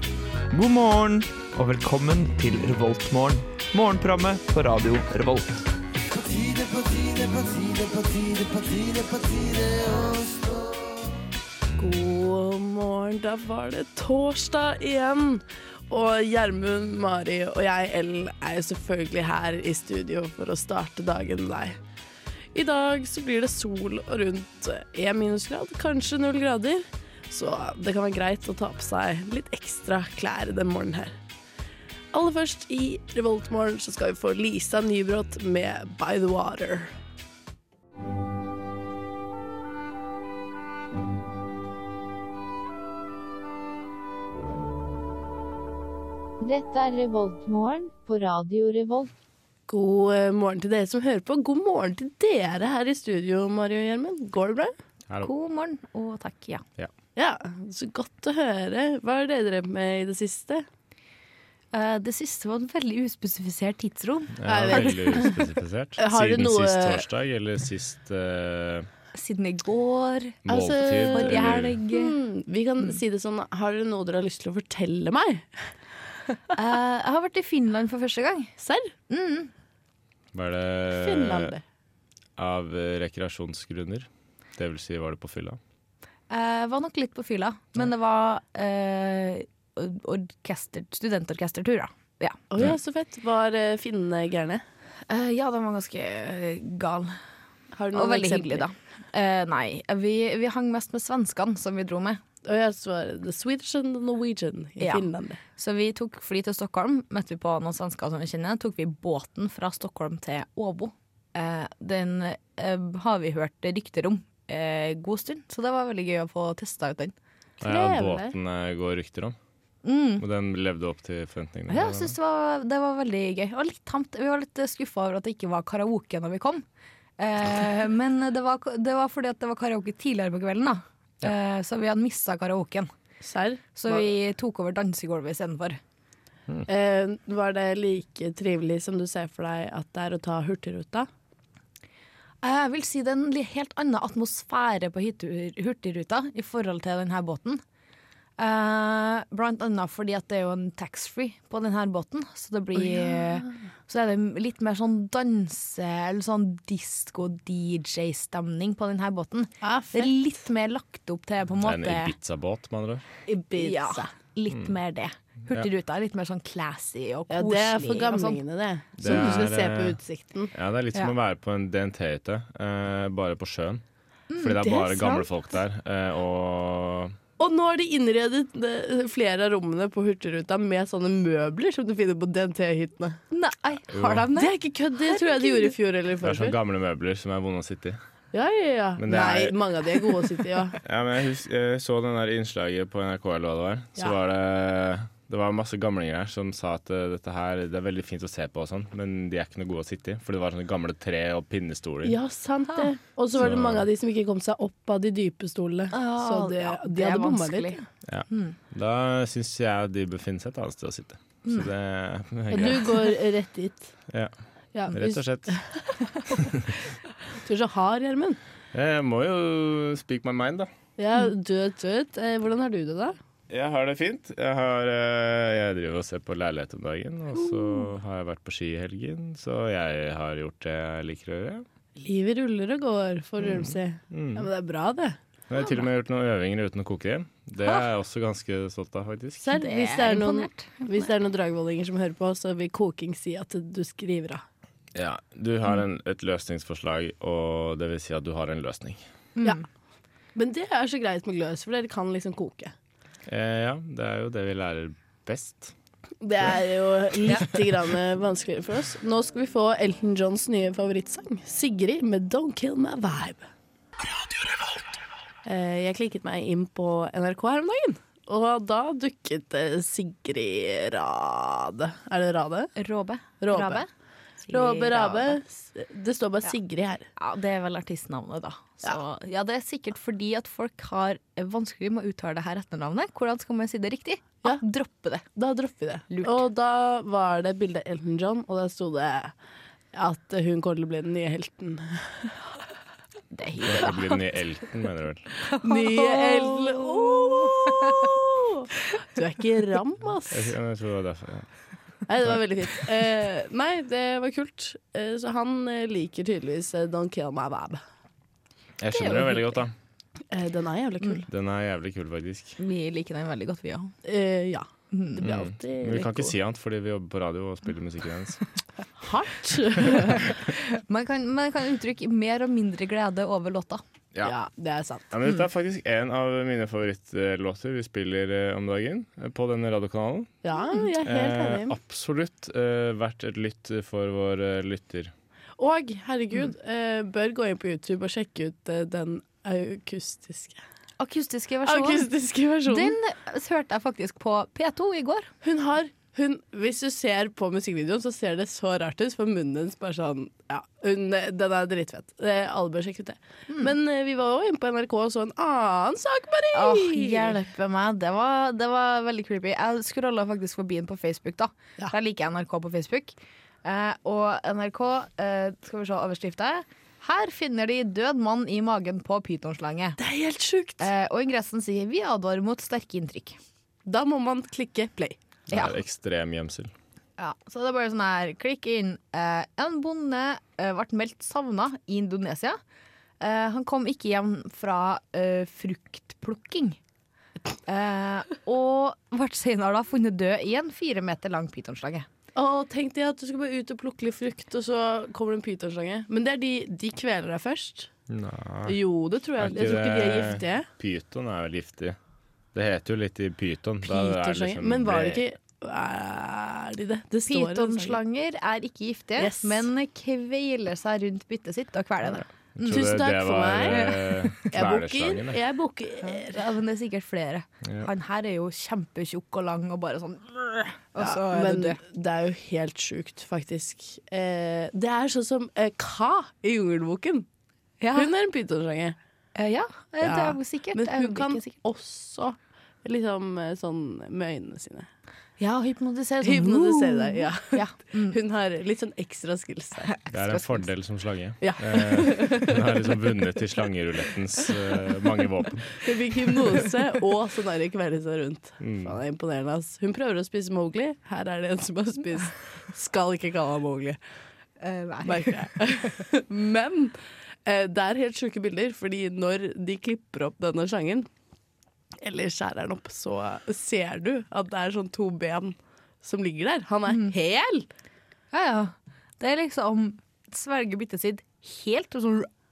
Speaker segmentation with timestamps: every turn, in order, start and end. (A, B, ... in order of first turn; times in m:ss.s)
0:00.5-0:10.9 A
0:11.8-0:21.8 B
0:22.5-0:31.1 B
0:32.1-0:36.9 B
0:46.4-0:49.1 C
0:49.7-0:54.7 B
0:55.2-0:56.6 D
0:57.2-1:00.6 B
1:01.7-1:04.4 D
1:04.4-1:08.9 E
1:04.4-1:05.4 B
1:06.0-1:07.0 B
1:09.1-1:10.4 D
1:10.4-1:11.8 E
1:10.5-1:15.6 B
1:11.1-1:12.1 D
1:16.5-1:18.5 D
1:18.6-1:18.9 B
1:19.1-1:19.5 D
1:20.3-1:21.5 E
1:20.9-1:21.6 B
1:22.4-1:25.6 E
1:26.3-1:32.5 D
1:32.5-1:34.6 B
1:35.1-1:37.2 D
1:37.7-1:38.6 B
1:37.9-1:42.2 D
1:42.4-1:45.4 B
1:44.8-1:45.0 D
1:45.6-1:57.1 D
1:57.6-1:58.3 B
1:57.6-1:59.4 E
1:59.8-2:00.2 D
2:00.2-2:02.1 E
2:01.7-2:06.6 D
2:07.2-2:12.9 D
2:13.2-2:14.1 B
2:13.8-2:15.8 D
2:16.7-2:21.1 B
2:22.4-2:27.6 D
2:28.4-2:42.1 D
2:32.8-2:33.5 B
2:39.6-2:40.1 B
2:41.6-2:43.0 E
2:43.3-2:44.1 B
2:43.5-2:48.4 D
2:47.3-2:50.5 B
2:49.0-2:50.0 E
2:49.0-2:49.5 D
2:50.5-2:53.8 E
2:54.3-2:55.2 D
2:54.4-2:57.2 E
2:57.4-3:03.2 B
3:03.3-3:04.5 D
3:03.9-3:04.2 E
3:04.4-3:06.6 B
3:05.1-3:05.7 D
3:06.2-3:08.0 E
3:08.3-3:10.8 B
3:09.0-3:09.6 E
3:10.8-3:22.2 E
3:22.0-3:27.8 B
3:23.4-3:23.8 E
3:25.9-3:27.8 D
3:28.1-3:33.1 E
3:28.3-3:28.6 D
3:32.5-3:33.9 B
3:34.7-3:35.7 B
3:34.9-3:35.6 E
3:37.3-3:38.4 B
3:38.7-3:40.7 E
3:41.0-3:43.2 B
3:43.5-3:51.6 E
3:52.0-3:55.2 B
3:53.4-3:54.5 E
3:55.5-3:59.5 E
3:55.6-3:55.8 D
3:59.4-4:04.4 B
3:59.5-4:00.8 D
4:04.9-4:09.0 E
4:09.4-4:09.6 D
4:10.3-4:12.7 B
4:13.3-4:15.7 E
4:16.2-4:23.4 B
4:25.4-4:32.7 B
4:32.8-4:33.9 D
4:33.4-4:33.8 B
4:34.4-4:35.4 D
4:34.5-4:37.1 B
4:37.2-4:45.2 D
4:45.4-4:49.3 B
4:46.1-4:46.4 D
4:49.9-4:52.5 B
4:53.3-4:54.2 D
4:53.6-4:55.3 E
4:55.4-4:58.2 D
4:55.6-5:00.5 B
5:00.3-5:01.5 E
5:02.1-5:07.8 B
5:08.8-5:09.7 E
5:08.9-5:09.5 D
5:10.3-5:11.3 B
5:11.3-5:12.6 E
5:12.6-5:13.9 D
5:14.0-5:16.3 B
5:14.9-5:15.2 D
5:15.2-5:18.4 E
5:19.0-5:20.2 B
5:19.8-5:23.8 D
5:24.2-5:25.1 B
5:25.1-5:30.3 E
5:30.4-5:31.8 B
5:31.0-5:35.1 E
5:35.6-5:40.6 B
5:41.0-5:42.1 D
5:41.6-5:42.9 B
5:42.7-5:45.3 D
5:45.4-5:57.4 B
5:56.5-6:10.0 D
6:10.0-6:10.9 B
6:10.8-6:13.4 D
6:13.8-6:15.2 B
6:15.5-6:16.7 E
6:15.5-6:15.8 D
6:17.2-6:22.6 D
6:23.2-6:26.8 D
6:27.7-6:32.1 D
6:32.3-6:37.9 B
6:38.1-6:38.8 E
6:38.7-6:40.7 B
6:39.4-6:42.0 E
6:42.5-6:45.2 E
6:43.8-6:48.0 B
6:47.3-6:52.9 D
6:49.2-6:49.7 B
6:52.5-6:55.4 E
6:52.7-6:53.9 B
6:53.7-6:54.5 D
6:54.5-6:56.5 B
6:56.0-7:01.8 D
6:57.6-6:57.9 E
7:01.0-7:07.2 B
7:07.8-7:08.1 D
7:07.9-7:09.0 B
7:09.4-7:11.5 D
7:10.0-7:14.9 B
7:15.4-7:18.2 D
7:16.2-7:19.9 B
7:19.8-7:20.7 D
7:20.1-7:25.8 E
7:21.4-7:22.6 B
7:25.8-7:34.0 B
7:28.6-7:29.0 E
7:34.6-7:36.1 D
7:35.0-7:41.1 B
7:42.0-7:47.7 B
7:48.3-7:52.3 D